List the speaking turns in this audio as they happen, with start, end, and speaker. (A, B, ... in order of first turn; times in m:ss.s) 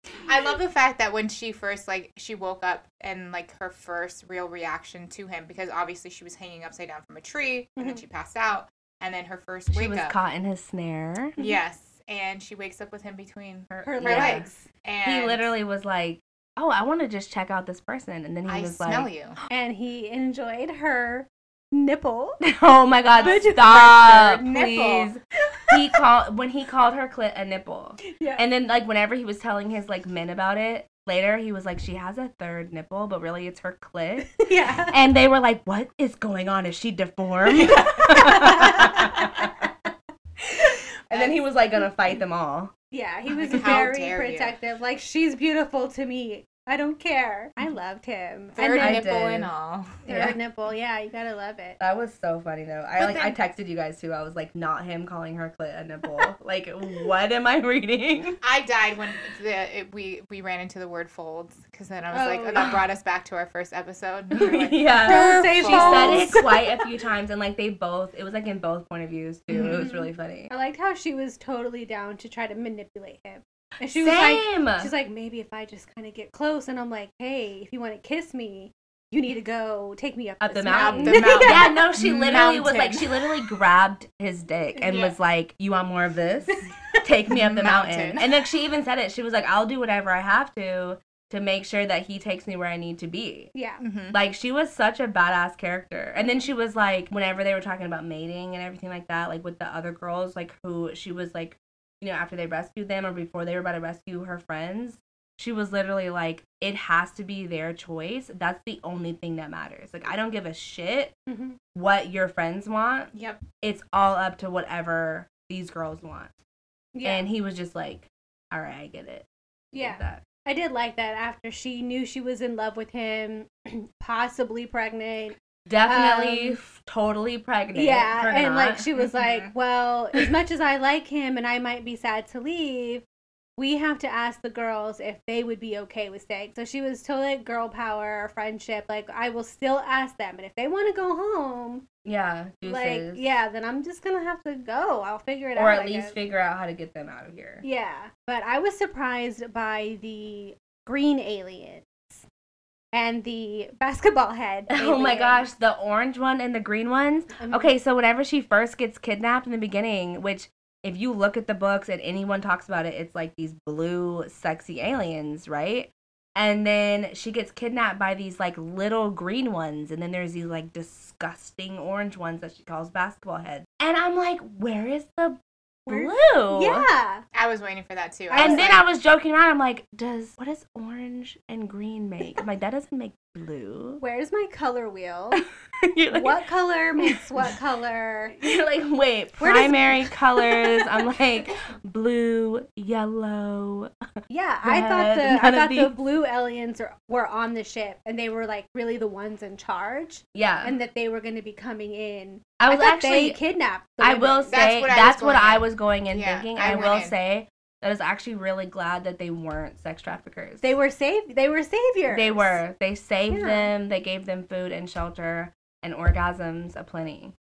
0:00.2-0:10.2 A
0:07.8-0:08.0 B
0:09.7-0:11.4 C
0:11.4-0:15.5 A
0:13.7-0:14.5 C
0:13.8-0:14.7 B
0:15.0-0:19.1 C
0:18.5-0:19.4 A
0:19.5-0:22.4 B
0:22.4-0:39.7 C
0:23.2-0:25.1 A
0:23.2-0:24.4 B
0:28.0-0:28.4 B
0:34.4-0:35.0 B
0:37.7-0:39.7 B
0:41.1-0:41.4 A
0:41.1-0:42.7 C
0:42.9-0:49.1 B
0:43.4-0:44.6 A
0:43.5-0:43.8 C
0:48.6-0:50.0 A
0:48.8-0:49.5 C
0:50.0-0:51.8 B
0:50.1-0:50.4 C
0:51.8-0:58.4 C
0:53.0-0:53.4 A
0:58.4-1:06.4 A
1:02.1-1:02.8 B
1:04.4-1:10.5 C
1:05.0-1:06.8 B
1:09.5-1:09.8 A
1:09.6-1:21.8 B
1:13.9-1:14.9 C
1:20.4-1:33.5 C
1:20.7-1:23.3 A
1:24.8-1:25.2 A
1:26.5-1:27.0 B
1:27.3-1:28.3 A
1:33.6-1:33.8 B
1:33.8-1:34.2 A
1:34.1-1:51.2 C
1:51.3-1:51.6 B
1:51.7-1:56.3 C
1:53.1-1:53.4 A
1:57.0-1:57.3 B
1:57.0-2:00.2 C
1:59.7-2:06.6 B
2:05.7-2:08.8 C
2:07.7-2:13.0 B
2:09.0-2:09.5 A
2:13.6-2:21.9 B
2:22.0-2:23.2 C
2:22.6-2:26.2 B
2:25.6-2:27.6 C
2:27.6-2:32.3 B
2:32.9-2:35.5 B
2:34.7-2:56.9 C
2:37.4-2:37.7 B
2:55.9-2:57.2 B
2:57.3-2:58.8 A
2:58.3-2:58.8 B
2:58.4-3:04.0 C
3:04.0-3:05.4 B
3:05.3-3:06.4 C
3:06.1-3:08.4 B
3:07.0-3:07.5 C
3:08.4-3:13.9 C
3:09.4-3:10.9 B
3:14.3-3:24.7 B
3:14.6-3:16.0 C
3:20.3-3:20.7 C
3:22.6-3:23.4 C
3:24.0-3:30.8 C
3:24.5-3:27.1 A
3:30.6-3:32.6 B
3:32.1-3:37.3 C
3:33.3-3:33.7 B